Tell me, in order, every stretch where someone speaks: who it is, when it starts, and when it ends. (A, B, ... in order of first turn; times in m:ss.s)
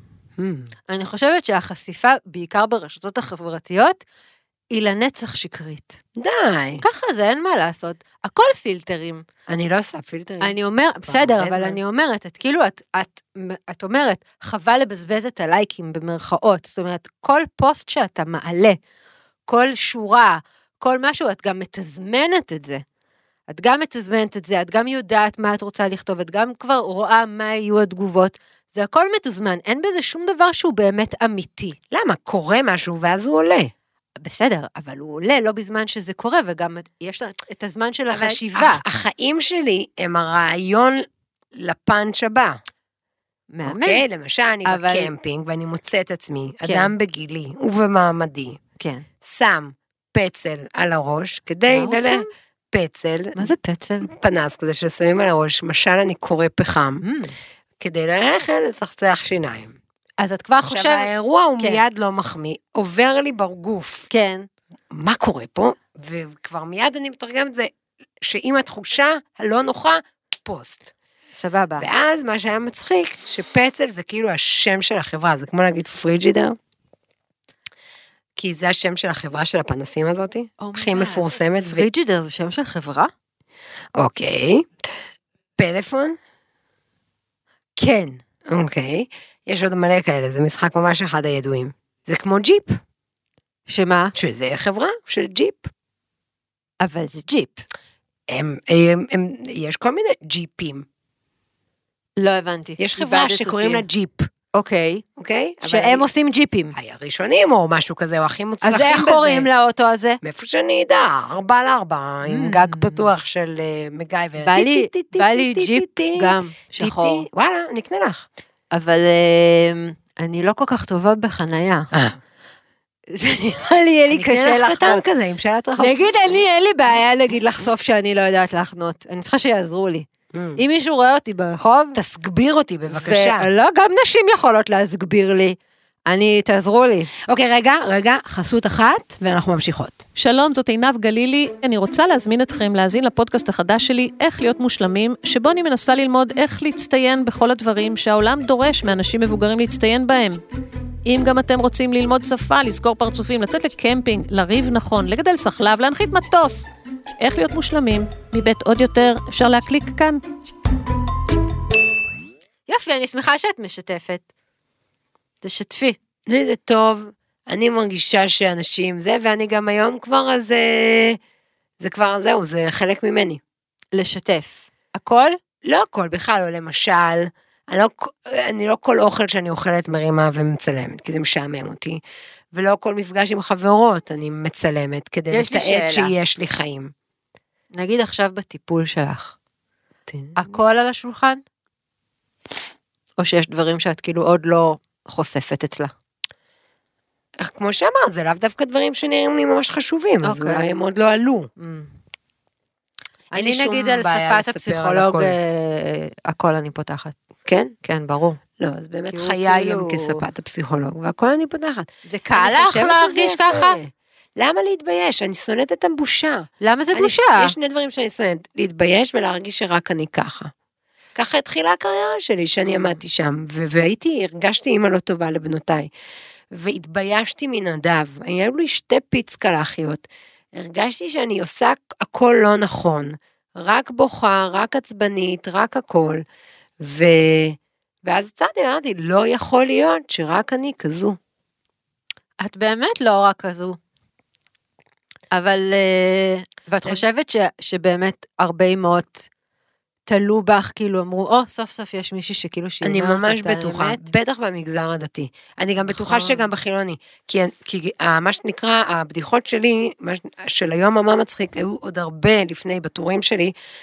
0:00.4-0:00.7 A
0:00.9-0:04.0 B
0:04.7-0:06.0 B
0:06.2-0:06.8 A
0:06.8-0:09.2 B
0:09.5-0:11.8 A
0:10.4-0:18.8 B
0:19.5-0:22.8 B
0:23.5-0:31.8 B
0:31.9-0:33.7 A
0:34.2-0:38.8 B
0:38.1-0:42.6 A
0:43.5-0:44.0 B
0:43.6-0:48.6 A
0:44.6-0:45.1 B
0:46.6-0:46.9 B
0:48.8-0:49.0 B
0:49.2-0:53.5 A
0:51.7-0:52.3 B
0:53.4-0:54.1 B
0:54.0-0:57.0 A
0:57.0-0:57.3 B
0:57.8-0:59.8 A
1:00.2-1:01.8 B
1:00.6-1:04.1 A
1:04.1-1:04.4 B
1:04.9-1:07.7 A
1:08.2-1:10.9 A
1:11.4-1:11.9 B
1:11.8-1:16.6 A
1:18.4-1:21.9 A
1:20.6-1:23.1 B
1:24.0-1:24.7 A
1:25.6-1:26.2 A
1:27.8-1:28.2 B
1:28.5-1:32.8 A
1:33.7-1:34.1 B
1:34.1-1:35.7 A
1:36.8-1:37.6 B
1:38.3-1:40.8 A
1:42.2-1:43.8 B
1:42.8-1:44.3 A
1:44.5-1:45.0 B
1:45.2-1:46.0 A
1:45.6-1:46.7 B
1:46.7-1:49.5 A
1:48.6-1:50.2 B
1:50.2-1:58.2 A
1:52.2-1:53.0 B
1:54.4-1:57.2 B
1:58.7-2:01.9 B
2:01.9-2:02.2 A
2:03.1-2:05.0 B
2:04.1-2:06.4 A
2:05.8-2:12.0 B
2:10.3-2:10.6 A
2:11.9-2:13.5 A
2:12.9-2:15.6 B
2:16.1-2:17.1 B
2:17.3-2:20.0 A
2:20.2-2:30.4 C
2:31.0-2:36.7 C
2:37.2-2:40.2 C
2:42.7-2:44.2 B
2:45.4-2:46.0 B
2:46.3-2:51.2 A
2:51.8-2:53.4 A
2:53.9-2:55.4 B
2:55.6-3:02.0 A
3:02.5-3:06.9 A
3:05.3-3:06.1 B
3:07.8-3:09.3 B
3:10.1-3:10.4 A
3:10.4-3:11.4 B
3:13.2-3:15.9 B
3:17.4-3:21.5 A
3:20.2-3:20.7 B
3:21.6-3:21.9 B
3:23.3-3:25.4 A
3:23.3-3:27.1 B
3:27.4-3:27.7 A
3:27.8-3:28.4 B
3:28.6-3:40.5 A
3:29.1-3:30.2 B
3:32.0-3:33.8 B
3:36.6-3:37.5 B
3:41.1-3:45.9 A
3:46.5-3:56.2 A
3:56.8-4:01.2 A
4:02.4-4:03.8 B
4:05.3-4:09.3 B
4:10.1-4:14.1 B
4:12.8-4:23.5 A
4:15.8-4:16.5 B